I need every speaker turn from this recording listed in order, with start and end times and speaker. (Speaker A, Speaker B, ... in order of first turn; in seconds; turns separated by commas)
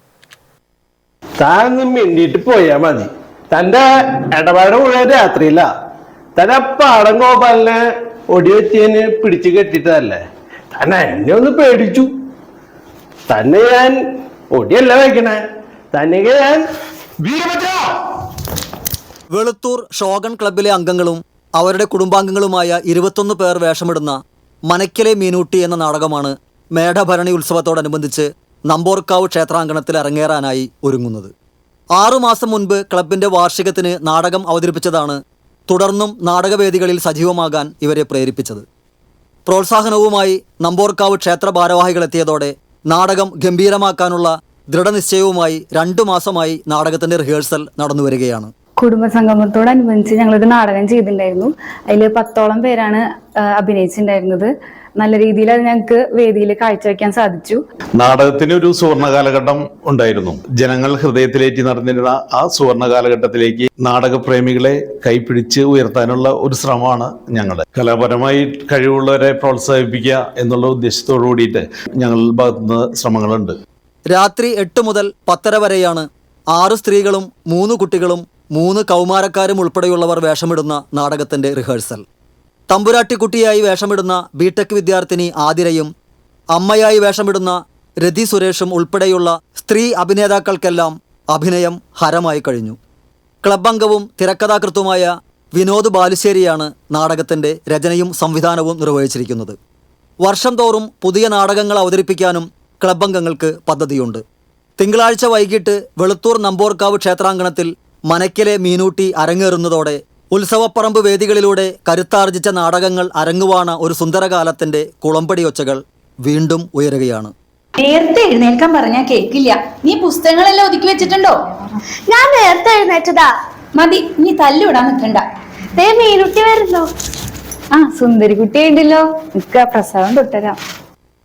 Speaker A: 1.4-5.7, Speaker A: 6.4-10.2, Speaker A: 10.8-12.1, Speaker A: 13.3-14.0, Speaker A: 14.5-15.4, Speaker A: 15.9-16.6, Speaker A: 17.2-18.0, Speaker B: 19.3-24.1, Speaker B: 24.7-31.3, Speaker B: 32.0-35.2, Speaker B: 35.7-38.6, Speaker B: 39.5-48.5, Speaker C: 48.8-57.6, Speaker D: 58.0-73.5, Speaker B: 74.1-82.0, Speaker B: 82.7-85.9, Speaker B: 86.5-92.8, Speaker B: 93.4-99.6, Speaker B: 100.2-104.2, Speaker B: 104.8-117.3, Speaker E: 117.8-121.4, Speaker F: 122.1-123.3, Speaker E: 123.8-125.2, Speaker F: 125.8-126.9, Speaker C: 127.8-130.6